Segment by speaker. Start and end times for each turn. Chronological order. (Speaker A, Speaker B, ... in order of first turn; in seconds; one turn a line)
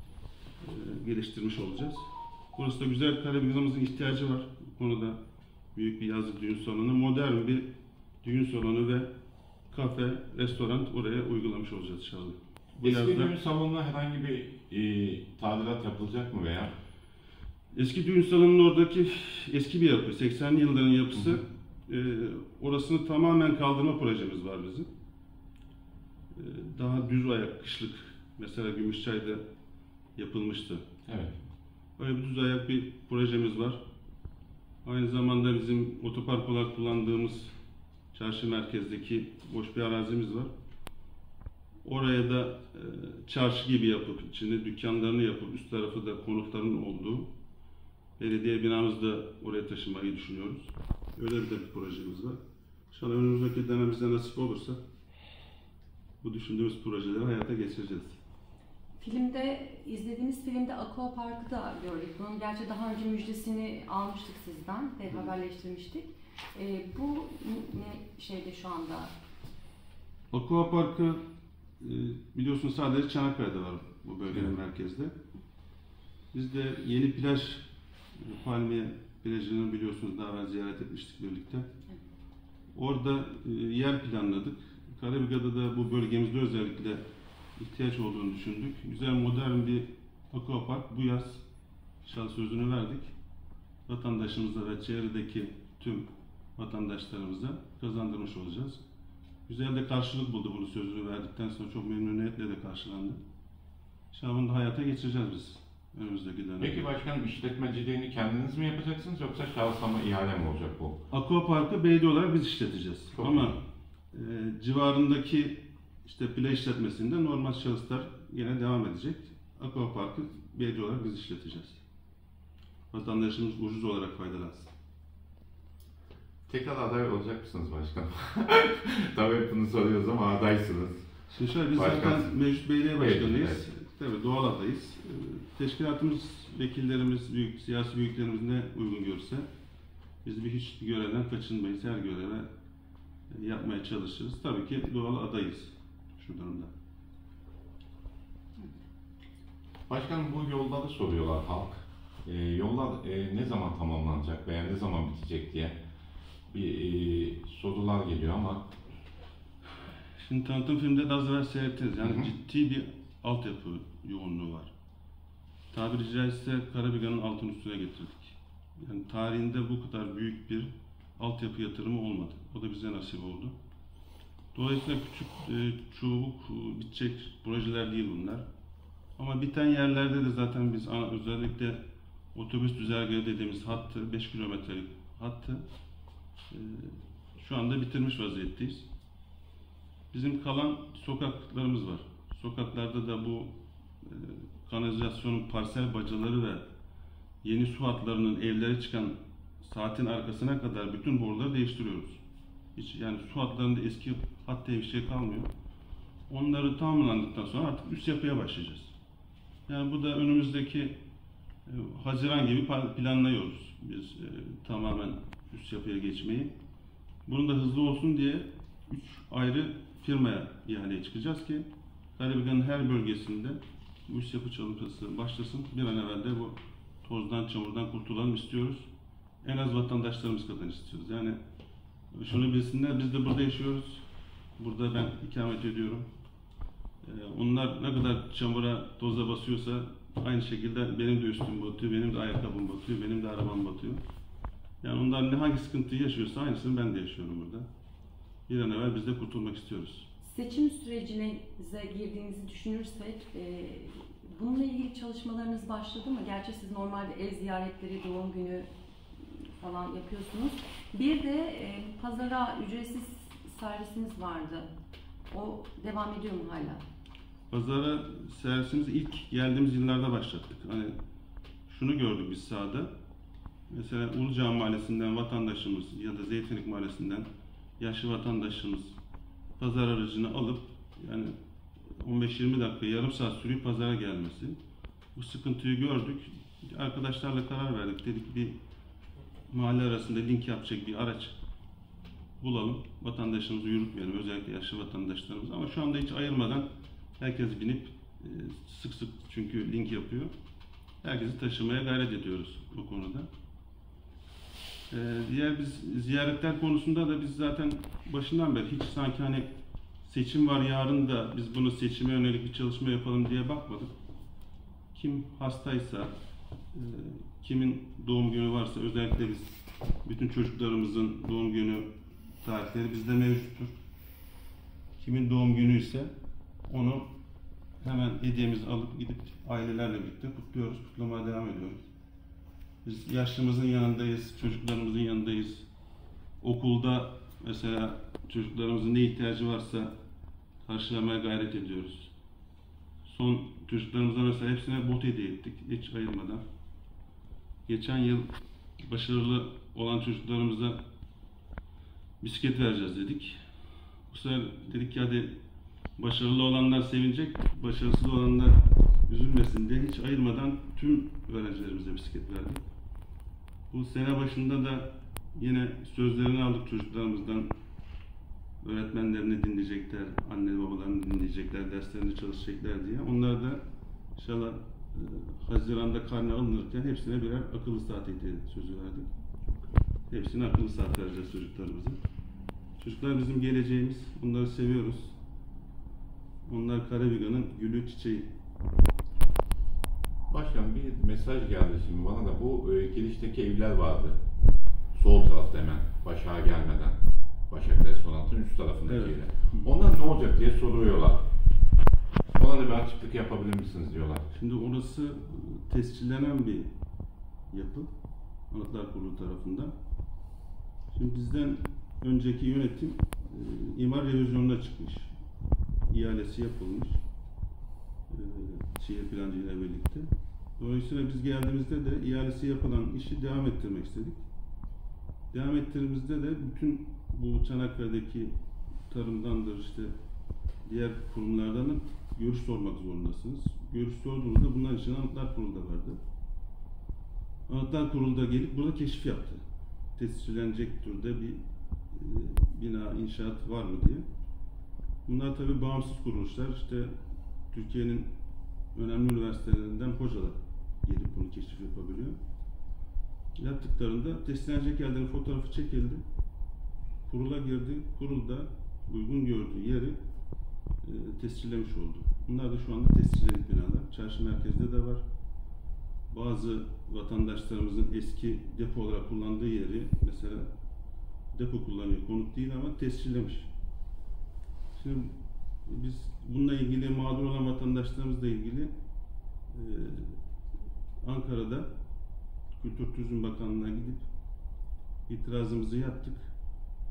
Speaker A: 0.6-5.2
Speaker A: 5.8-7.7
Speaker A: 8.2-9.1
Speaker A: 9.7-13.3
Speaker B: 12.8-16.7
Speaker A: 17.7-24.9
Speaker A: 26.4-29.4
Speaker A: 30.2-30.9
Speaker B: 31.1-31.4
Speaker A: 32.0-33.8
Speaker A: 34.8-37.5
Speaker A: 38.1-40.5
Speaker A: 41.8-47.3
Speaker A: 48.2-52.4
Speaker A: 52.9-54.8
Speaker A: 56.2-58.2
Speaker C: 59.0-69.1
Speaker A: 70.3-71.2
Speaker A: 71.8-75.2
Speaker A: 76.3-77.7
Speaker A: 78.2-81.7
Speaker A: 82.7-87.0
Speaker A: 87.6-91.4
Speaker A: 92.0-93.1
Speaker A: 93.9-98.8
Speaker A: 99.5-103.2
Speaker A: 104.1-106.9
Speaker B: 106.6-111.0
Speaker A: 111.1-113.6
Speaker B: 113.2-113.6
Speaker A: 114.1-121.8
Speaker A: 122.9-124.7
Speaker B: 126.5-131.1
Speaker A: 131.3-139.5
Speaker B: 131.8-132.4
Speaker B: 133.0-133.6
Speaker A: 140.2-142.5
Speaker A: 143.3-146.7
Speaker B: 149.9-155.8
Speaker B: 156.5-158.7
Speaker A: 160.2-164.7
Speaker B: 162.0-162.3
Speaker A: 165.7-173.6
Speaker A: 174.5-178.4
Speaker A: 179.2-181.8
Speaker A: 182.3-185.6
Speaker A: 186.5-188.9
Speaker A: 190.1-196.6
Speaker A: 197.4-202.2
Speaker A: 202.8-205.5
Speaker A: 206.3-208.9
Speaker A: 209.7-211.0
Speaker A: 211.7-216.5
Speaker A: 217.3-228.9
Speaker A: 229.4-231.4
Speaker A: 232.1-234.0
Speaker A: 234.6-236.1
Speaker A: 237.0-244.0
Speaker A: 244.8-247.7
Speaker A: 248.5-250.1
Speaker C: 250.2-258.7
Speaker C: 259.6-264.7
Speaker C: 265.3-266.8
Speaker A: 267.5-271.0
Speaker A: 271.7-272.9
Speaker A: 273.7-277.3
Speaker A: 277.8-279.0
Speaker A: 279.6-281.4
Speaker A: 282.0-284.6
Speaker A: 285.1-288.6
Speaker A: 289.5-291.4
Speaker A: 292.4-296.7
Speaker A: 297.2-300.3
Speaker A: 301.0-303.3
Speaker A: 304.9-309.5
Speaker A: 310.0-313.9
Speaker A: 314.9-316.1
Speaker A: 316.7-321.9
Speaker A: 322.4-323.8
Speaker A: 325.0-326.1
Speaker A: 326.7-327.1
Speaker A: 327.8-331.8
Speaker A: 332.9-335.7
Speaker A: 336.4-339.9
Speaker A: 340.7-342.1
Speaker A: 343.1-346.4
Speaker A: 347.7-348.3
Speaker A: 348.8-350.8
Speaker A: 352.2-353.4
Speaker A: 354.1-355.3
Speaker A: 356.0-362.6
Speaker A: 363.7-367.5
Speaker A: 368.6-373.6
Speaker A: 374.2-379.1
Speaker A: 380.1-382.0
Speaker A: 382.8-385.1
Speaker A: 386.5-388.3
Speaker B: 390.3-394.2
Speaker B: 394.9-401.3
Speaker A: 398.9-399.7
Speaker B: 402.4-404.3
Speaker A: 404.3-406.7
Speaker A: 407.5-407.9
Speaker A: 408.5-409.7
Speaker A: 410.9-415.1
Speaker A: 415.9-417.0
Speaker A: 418.1-424.2
Speaker A: 425.3-428.3
Speaker A: 428.9-429.9
Speaker A: 430.7-436.0
Speaker A: 437.5-439.4
Speaker A: 440.0-444.1
Speaker A: 445.1-446.9
Speaker A: 447.5-448.1
Speaker A: 448.7-452.2
Speaker A: 453.4-456.0
Speaker A: 457.1-460.0
Speaker A: 460.8-465.0
Speaker A: 466.1-470.5
Speaker A: 471.3-473.5
Speaker A: 474.8-475.1
Speaker A: 475.7-478.7
Speaker A: 479.5-480.2
Speaker A: 481.0-481.7
Speaker A: 482.6-484.1
Speaker A: 485.1-486.3